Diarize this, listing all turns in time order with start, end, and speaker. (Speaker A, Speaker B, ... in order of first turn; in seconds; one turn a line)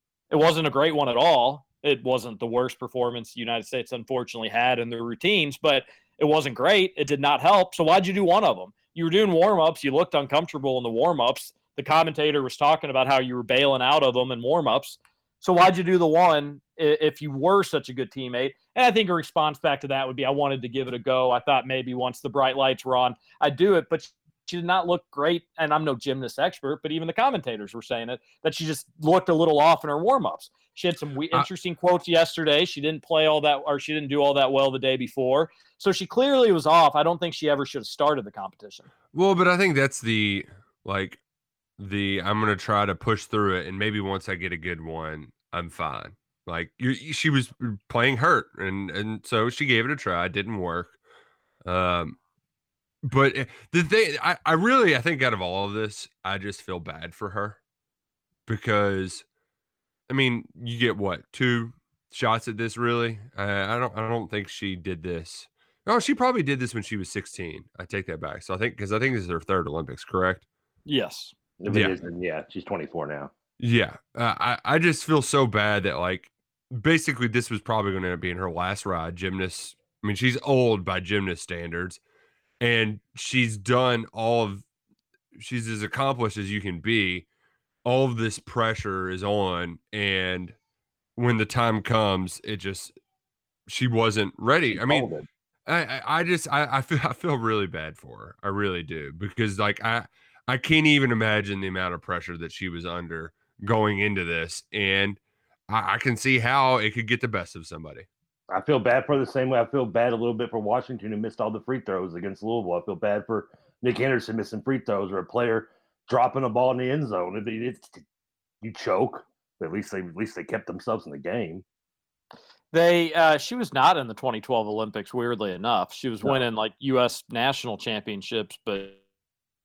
Speaker A: 0.3-38.9
Speaker B: 39.1-41.2
Speaker B: 41.8-51.0
Speaker B: 51.6-52.2
Speaker B: 53.0-57.6
Speaker B: 58.5-59.2
Speaker B: 60.1-70.5
Speaker A: 70.9-71.3
Speaker C: 71.6-73.3
Speaker B: 71.7-72.0
Speaker B: 73.6-82.0
Speaker B: 82.6-84.7
Speaker B: 85.4-87.2
Speaker B: 87.8-90.6
Speaker B: 91.2-92.9
Speaker B: 93.7-95.1
Speaker C: 94.7-95.3
Speaker B: 95.7-108.1
Speaker C: 108.5-118.0
Speaker C: 118.6-121.6
Speaker A: 122.7-129.0